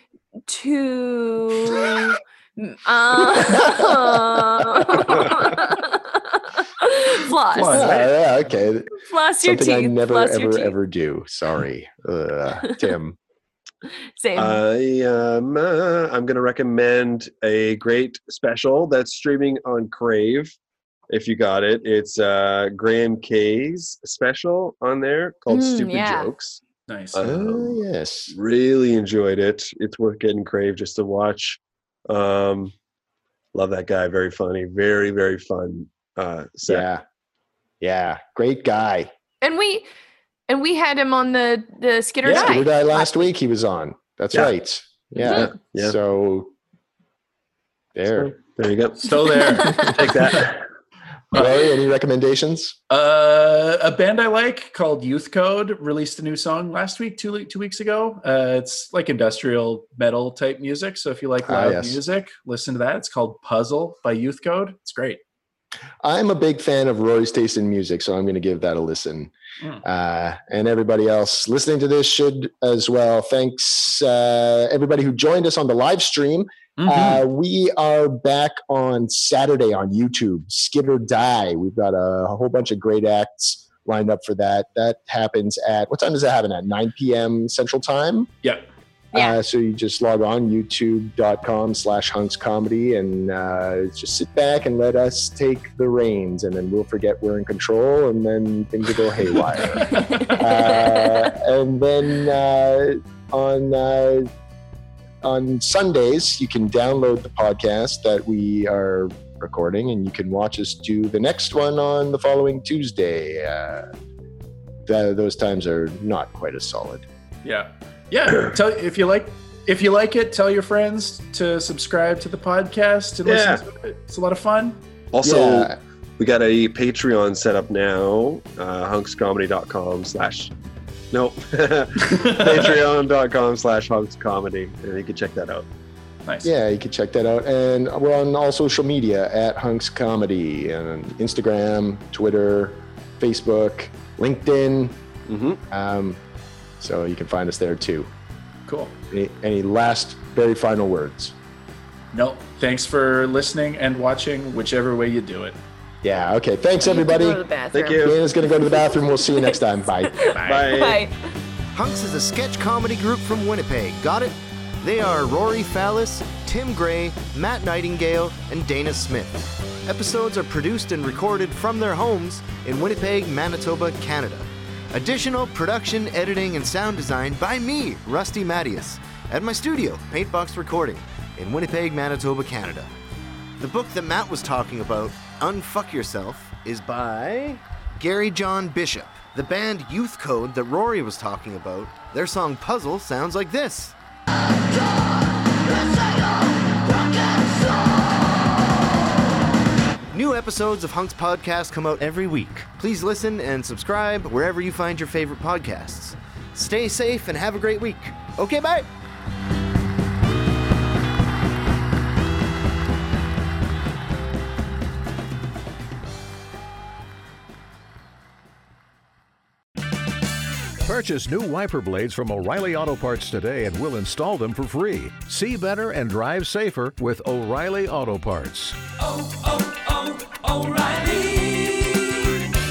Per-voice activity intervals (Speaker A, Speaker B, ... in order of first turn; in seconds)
Speaker A: 0.5-7.9, 9.1-10.7, 14.2-14.6, 25.5-26.3, 39.4-39.9, 40.5-43.3, 89.1-89.4, 99.9-101.3, 156.8-158.1, 159.1-161.1
Speaker B: 3.3-5.1, 7.7-8.9, 9.4-13.2, 27.2-28.4, 36.7-37.0, 37.8-39.1, 42.3-46.5, 48.0-48.4, 51.3-52.8, 61.5-62.0, 66.0-69.3, 69.8-88.3, 89.1-104.3, 105.2-113.9, 114.9-117.1, 125.2-125.8, 136.4-145.0, 145.7-146.2, 146.8-148.1, 149.1-151.3, 156.0-157.4, 158.0-160.3
Speaker C: 7.5-8.1, 26.9-27.2, 42.2-42.5, 49.0-50.4, 52.9-65.2, 76.8-77.2, 99.6-100.4, 117.5-124.8, 132.0-132.8, 136.2-136.5, 148.7-148.9, 152.1-155.6, 160.2-160.8
Speaker D: 14.4-20.6, 21.1-26.6, 27.1-32.7, 33.5-36.9, 45.3-46.0, 48.2-50.6, 123.3-123.6, 125.1-130.5, 131.1-135.7, 145.3-145.6, 157.7-158.2, 160.4-161.0
Speaker E: 161.7-182.9, 183.6-193.9, 200.1-208.9
Speaker F: 220.8-228.9
Speaker G: 229.0-232.3